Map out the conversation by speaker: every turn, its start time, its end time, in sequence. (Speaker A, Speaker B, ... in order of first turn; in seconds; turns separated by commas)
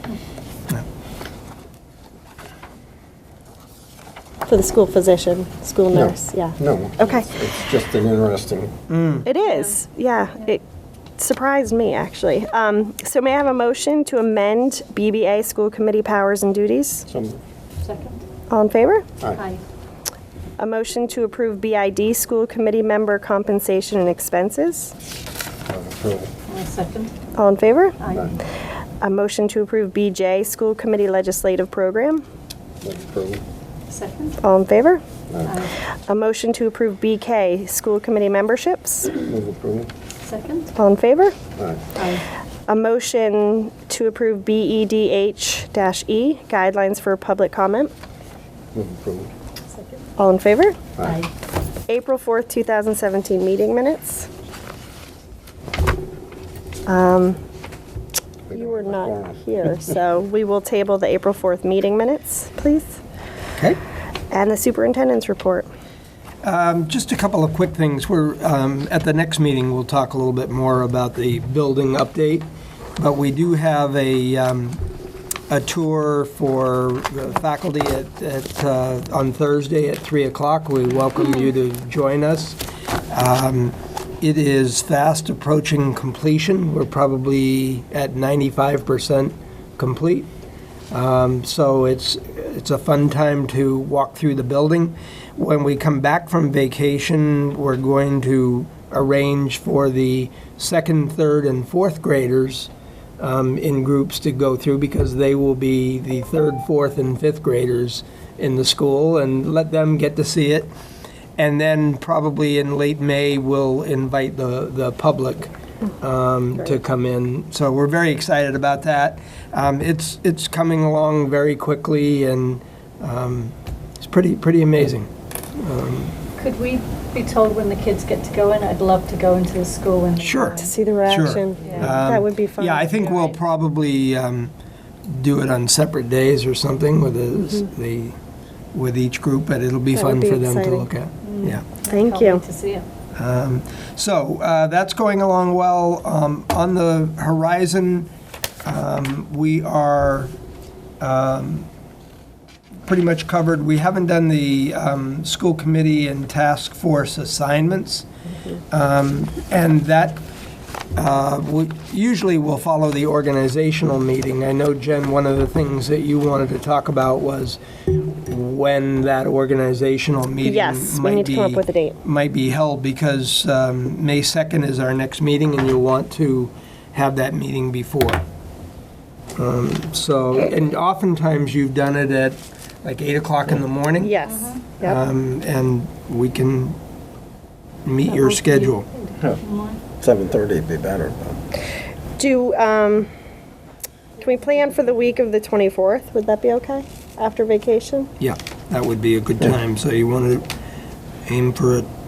Speaker A: 4.5-7.3, Speaker B: 5.9-8.7, Speaker C: 8.9-9.3, Speaker A: 9.2-10.6, Speaker D: 9.4-9.8, Speaker A: 11.2-17.1, Speaker B: 17.1-17.4, Speaker D: 17.8-18.2, Speaker A: 18.5-19.1, Speaker D: 19.4-19.6, Speaker A: 20.6-24.9, Speaker B: 25.7-26.3, Speaker D: 26.5-27.1, Speaker A: 27.4-28.0, Speaker D: 28.0-28.3, Speaker B: 28.1-28.4, Speaker A: 29.0-32.2, Speaker B: 32.8-33.4, Speaker D: 33.9-34.4, Speaker A: 34.4-35.0, Speaker B: 35.3-35.6, Speaker D: 35.4-35.8, Speaker A: 36.1-39.2, Speaker B: 39.2-39.9, Speaker D: 40.2-40.7, Speaker A: 40.8-41.4, Speaker B: 41.6-41.8, Speaker D: 42.0-42.2, Speaker A: 42.7-47.9, Speaker B: 48.7-49.3, Speaker D: 49.7-50.1, Speaker A: 50.2-50.8, Speaker D: 51.0-51.3, Speaker A: 51.9-54.3, Speaker A: 56.9-57.4, Speaker B: 58.5-59.4, Speaker A: 58.5-63.0, Speaker A: 64.3-65.7, Speaker C: 66.4-72.5, Speaker C: 73.0-74.8, Speaker C: 75.5-90.3, Speaker C: 90.9-110.7, Speaker C: 111.4-126.2, Speaker D: 126.4-130.8, Speaker C: 130.2-134.5, Speaker A: 130.6-132.9, Speaker D: 131.6-132.0, Speaker C: 135.1-138.2, Speaker C: 138.7-141.7, Speaker A: 139.9-140.9, Speaker D: 141.2-142.9, Speaker A: 141.9-142.4, Speaker C: 143.2-148.1, Speaker C: 148.7-150.3, Speaker C: 151.0-151.7, Speaker C: 152.8-158.1, Speaker C: 158.7-160.2, Speaker C: 161.0-178.2, Speaker A: 170.4-172.0, Speaker C: 179.4-184.2, Speaker A: 184.0-185.0, Speaker D: 184.2-184.6, Speaker C: 184.8-186.8, Speaker C: 187.9-188.9, Speaker D: 188.1-189.8, Speaker B: 190.0-191.4, Speaker A: 192.2-193.1, Speaker A: 194.2-198.1, Speaker C: 198.2-200.5, Speaker C: 201.3-201.9